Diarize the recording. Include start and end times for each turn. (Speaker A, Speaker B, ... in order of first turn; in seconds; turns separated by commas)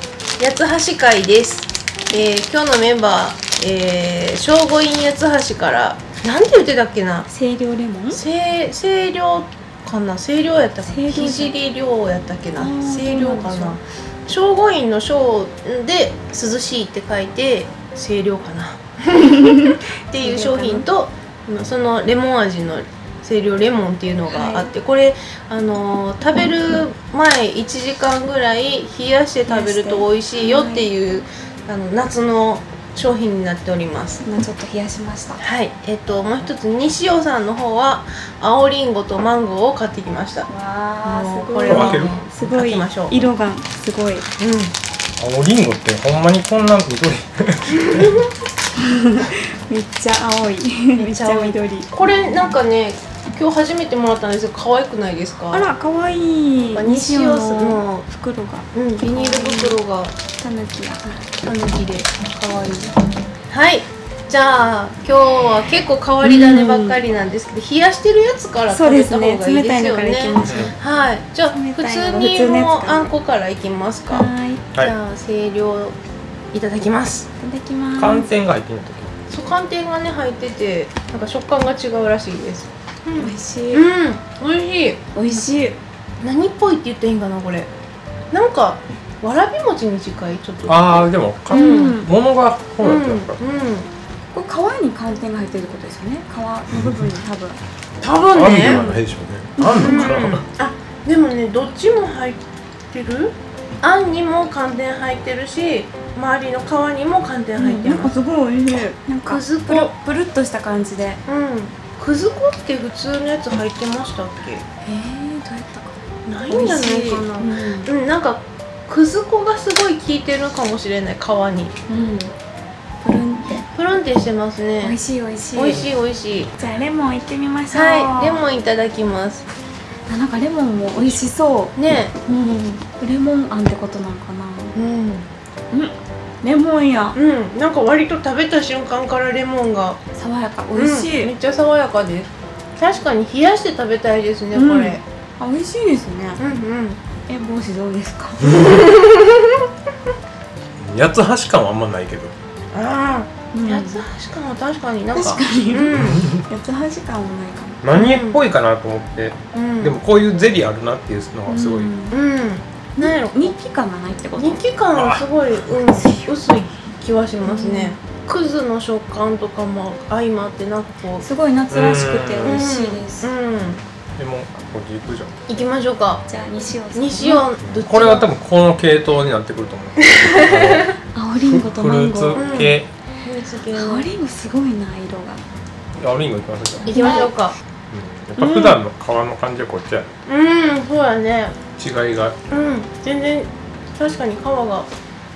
Speaker A: 0.4-7.3, Speaker B: 7.3-8.2, Speaker A: 8.1-34.2, Speaker B: 10.9-11.5, Speaker B: 12.6-13.8, Speaker B: 20.2-20.9, Speaker B: 24.3-24.7, Speaker B: 29.5-30.9, Speaker B: 34.2-35.4, Speaker A: 35.4-40.5, Speaker B: 40.5-44.3, Speaker A: 41.0-43.2, Speaker C: 41.7-42.1, Speaker A: 44.4-44.7, Speaker C: 45.2-48.1, Speaker A: 47.8-48.3, Speaker B: 48.8-51.9, Speaker A: 51.0-55.7, Speaker B: 55.5-59.8, Speaker A: 56.8-58.1, Speaker A: 58.7-60.1, Speaker B: 60.4-61.2, Speaker A: 61.4-62.9, Speaker A: 63.5-76.0, Speaker B: 66.2-67.0, Speaker B: 68.7-70.8, Speaker C: 70.4-70.7, Speaker B: 71.5-73.1, Speaker B: 74.1-74.7, Speaker A: 76.5-77.3, Speaker B: 77.4-78.3, Speaker C: 78.0-79.1, Speaker A: 79.3-85.0, Speaker B: 83.2-83.8, Speaker B: 85.1-85.8, Speaker A: 86.2-87.7, Speaker A: 88.3-92.0, Speaker C: 90.7-93.4, Speaker B: 91.5-92.1, Speaker A: 92.8-93.9, Speaker B: 94.3-97.6, Speaker A: 98.0-98.8, Speaker C: 98.3-100.4, Speaker B: 98.6-99.0, Speaker B: 99.6-100.2, Speaker A: 99.8-108.1, Speaker B: 107.6-111.2, Speaker A: 109.2-109.9, Speaker A: 111.3-114.6, Speaker B: 114.8-116.0, Speaker A: 116.3-121.7, Speaker B: 116.5-117.9, Speaker B: 121.9-122.3, Speaker B: 123.0-123.7, Speaker A: 123.7-125.0, Speaker B: 124.8-125.9, Speaker A: 125.5-126.5, Speaker B: 126.5-128.4, Speaker A: 127.7-129.4, Speaker B: 130.1-134.8, Speaker A: 131.8-132.1, Speaker A: 134.8-135.3, Speaker B: 135.7-137.2, Speaker A: 137.1-140.0, Speaker B: 140.2-141.3, Speaker A: 140.8-145.0, Speaker B: 144.5-146.4, Speaker A: 146.4-147.0, Speaker B: 147.3-148.6, Speaker A: 148.5-149.3, Speaker C: 150.8-152.3, Speaker A: 152.7-156.3, Speaker B: 153.5-154.0, Speaker B: 155.1-157.8, Speaker C: 156.0-156.4, Speaker C: 157.8-161.9, Speaker A: 157.9-158.4, Speaker A: 159.5-160.0, Speaker B: 161.5-162.2, Speaker A: 162.1-163.6, Speaker B: 163.0-164.6, Speaker A: 164.4-171.2, Speaker C: 164.9-165.3, Speaker B: 166.0-166.3, Speaker B: 167.4-168.0, Speaker B: 171.2-173.3, Speaker C: 171.7-172.7, Speaker A: 172.4-173.8, Speaker C: 174.2-175.4, Speaker A: 175.5-176.2, Speaker B: 176.3-177.5, Speaker A: 176.9-178.3, Speaker C: 177.7-182.9, Speaker A: 180.1-180.8, Speaker B: 181.1-182.5, Speaker A: 182.4-184.1, Speaker B: 183.7-185.4, Speaker C: 186.0-187.1, Speaker B: 186.8-187.3, Speaker A: 186.9-187.5, Speaker C: 187.9-190.1, Speaker B: 188.4-188.8, Speaker A: 190.3-191.6, Speaker C: 191.8-192.4, Speaker A: 192.5-194.9